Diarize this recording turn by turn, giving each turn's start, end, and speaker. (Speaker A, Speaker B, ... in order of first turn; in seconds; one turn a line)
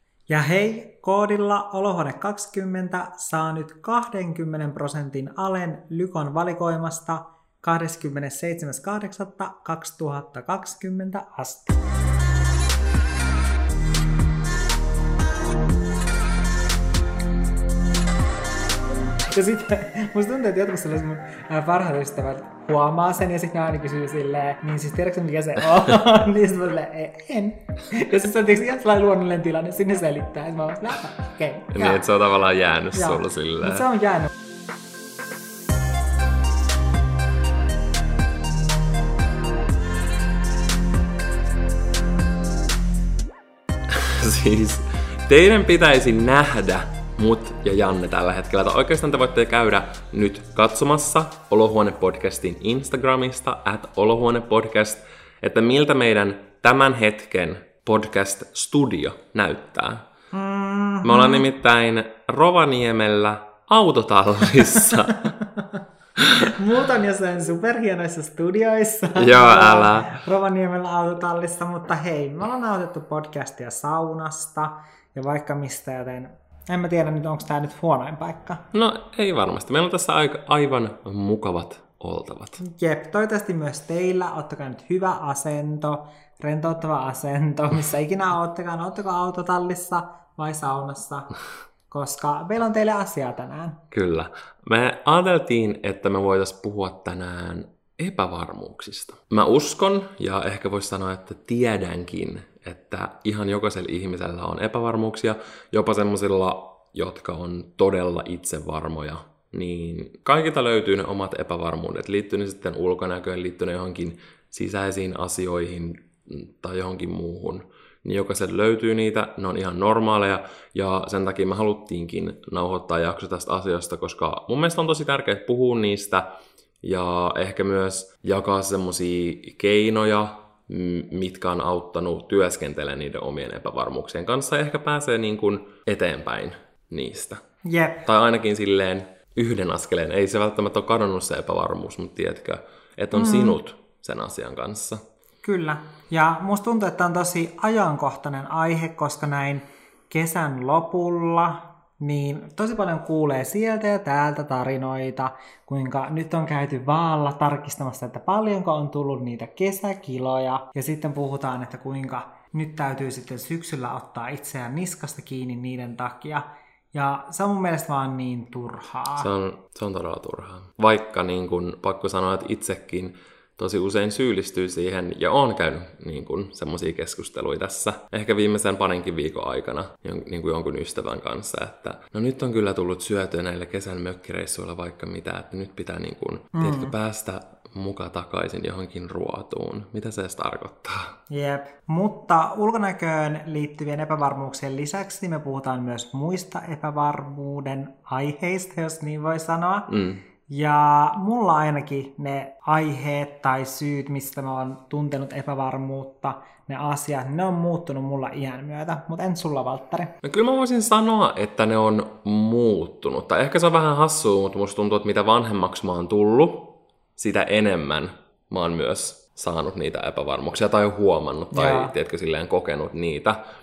Speaker A: 0.3-11.8
Speaker A: 19.3-32.1
Speaker B: 31.7-33.9
Speaker A: 32.9-34.3
Speaker B: 43.9-60.0
Speaker A: 60.3-61.5
Speaker B: 61.0-65.3
Speaker A: 64.7-65.8
Speaker B: 66.2-66.5
Speaker A: 66.5-78.6
Speaker B: 69.1-70.2
Speaker B: 78.7-82.6
Speaker A: 82.6-91.3
Speaker A: 91.9-93.8
Speaker B: 93.9-126.2
Speaker B: 126.8-137.4
Speaker A: 137.6-138.1
Speaker B: 138.0-145.0
Speaker A: 143.1-143.6
Speaker A: 145.4-169.3
Speaker B: 169.2-191.2
Speaker A: 186.6-186.9
Speaker A: 191.3-199.9
Speaker B: 199.9-200.2
Speaker A: 200.5-210.2
Speaker B: 210.2-223.4
Speaker A: 221.5-221.9